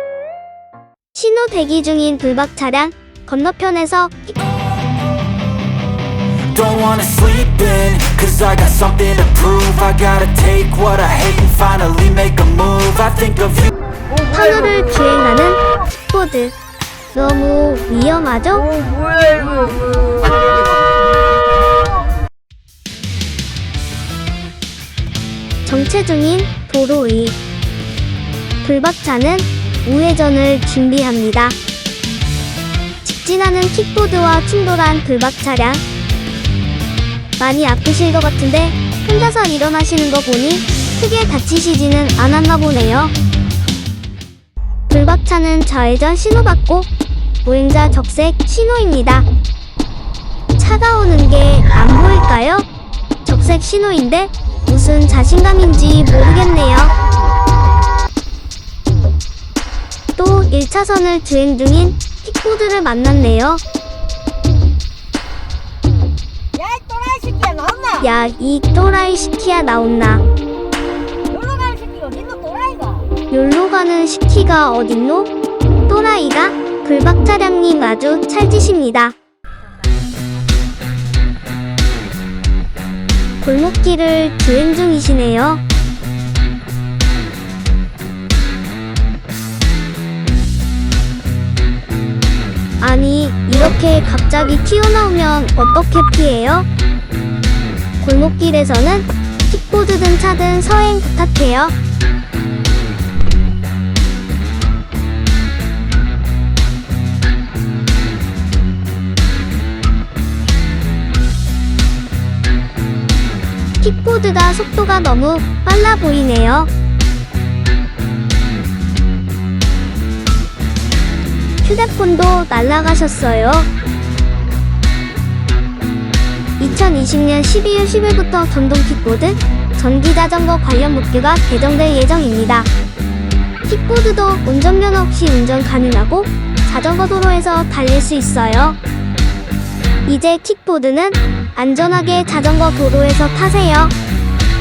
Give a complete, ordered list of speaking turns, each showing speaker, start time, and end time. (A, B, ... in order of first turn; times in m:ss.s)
0:01.1-0:04.4 A
0:06.4-0:13.7 B
0:14.3-0:16.5 A
0:17.1-0:18.8 A
0:25.6-0:27.4 A
0:28.6-0:31.6 A
0:33.0-0:35.8 A
0:37.4-0:43.1 A
0:44.9-0:46.9 A
0:47.4-0:49.2 A
0:50.6-0:52.6 A
0:53.2-0:56.9 A
1:00.2-1:03.6 A
1:06.5-1:08.0 C
1:08.0-1:10.2 A
1:11.3-1:13.1 C
1:13.3-1:15.3 A
1:15.9-1:19.1 A
1:23.4-1:25.6 A
1:32.8-1:36.7 A
1:38.0-1:41.7 A
1:53.8-1:56.7 A
2:01.6-2:03.7 A
2:06.6-2:12.7 A
2:13.6-2:18.8 A
2:20.0-2:23.9 A